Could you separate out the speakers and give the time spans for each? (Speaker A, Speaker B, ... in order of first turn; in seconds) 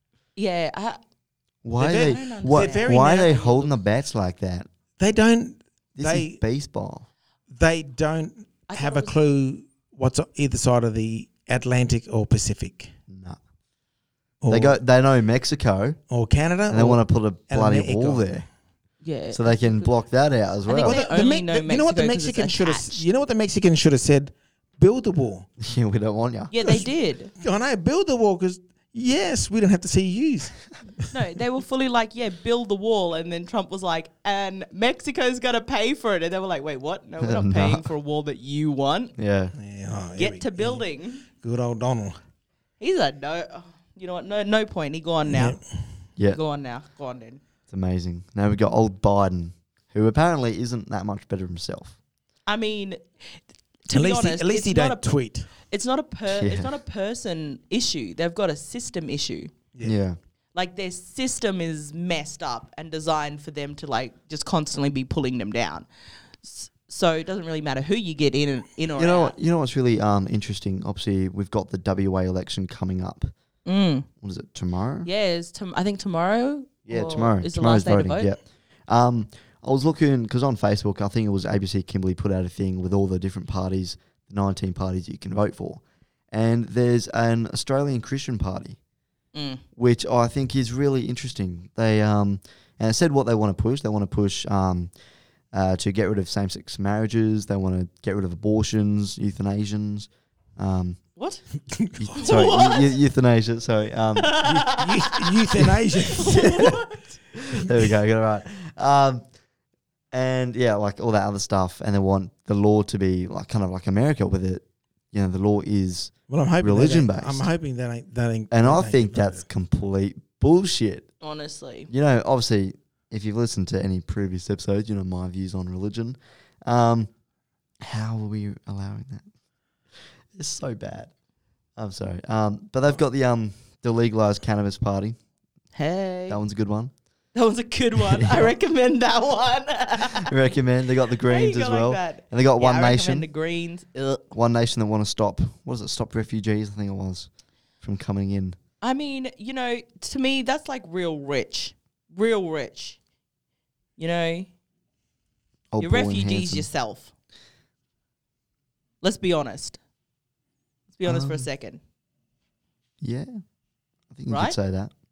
Speaker A: 0.3-1.0, 1.9-3.4, 8.7-9.1, 19.0-19.9, 20.6-23.0, 26.5-27.3, 31.1-39.1, 40.1-41.2, 42.8-45.6, 46.3-47.4, 52.5-53.0, 53.9-55.1, 55.7-59.5, 60.5-65.8, 66.4-69.3, 73.6-74.1, 75.0-78.3, 89.3-89.6, 101.2-101.4, 102.1-102.9, 104.2-107.2, 121.2-121.9, 135.7-136.4, 137.3-140.3, 141.2-144.2, 148.8-153.0, 154.0-154.5, 155.8-157.1, 159.0-159.8, 160.9-161.8, 164.3-164.6
Speaker B: 1.6-4.7, 6.0-7.1, 13.1-13.4, 14.5-16.0, 16.7-18.4, 19.3-21.0, 25.6-26.8, 37.2-37.9, 39.2-39.5, 47.7-52.0, 56.3-56.7, 59.8-60.2, 69.0-73.3, 74.2-75.1, 76.9-88.8, 89.8-94.9, 95.5-101.0, 102.0-104.4, 106.2-106.8, 107.5-109.2, 110.1-117.5, 118.5-121.1, 121.9-127.1, 127.8-129.2, 130.3-131.1, 131.8-135.2, 136.3-136.9, 138.0-138.5, 140.2-143.3, 144.3-147.3, 147.8-148.6, 155.7-156.7, 161.0-161.5, 163.0-163.4, 164.1-164.9
Speaker C: 1.8-3.7, 5.0-6.4, 7.5-12.9, 14.4-14.8, 16.1-18.4, 20.8-25.5, 27.4-31.1, 39.5-42.2, 45.3-46.0, 53.9-55.5, 101.8-102.4, 104.4-106.6, 116.3-119.4